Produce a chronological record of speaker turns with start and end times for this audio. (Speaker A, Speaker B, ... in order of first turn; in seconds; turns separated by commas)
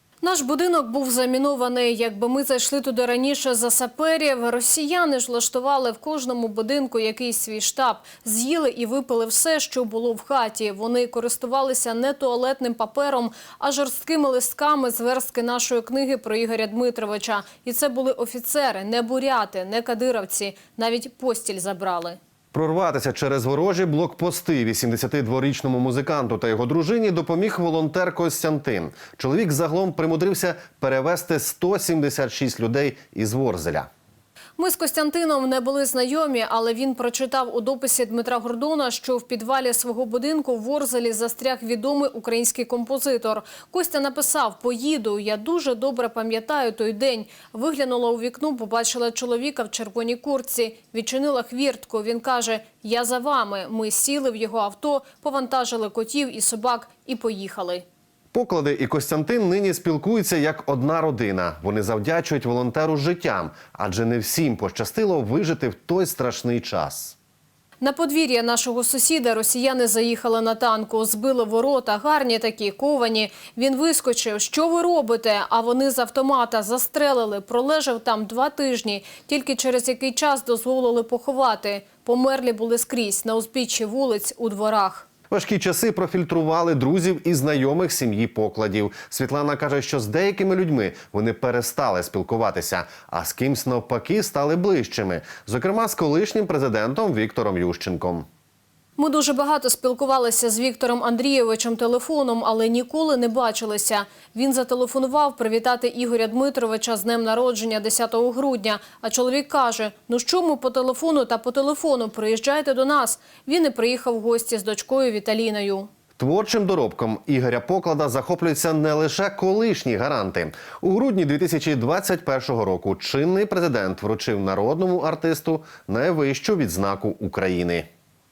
Speaker A: 0.2-22.2, Speaker B: 22.5-33.9, Speaker A: 34.6-57.8, Speaker B: 58.3-67.2, Speaker A: 67.8-85.0, Speaker B: 85.3-98.3, Speaker A: 99.0-115.9, Speaker B: 116.2-127.9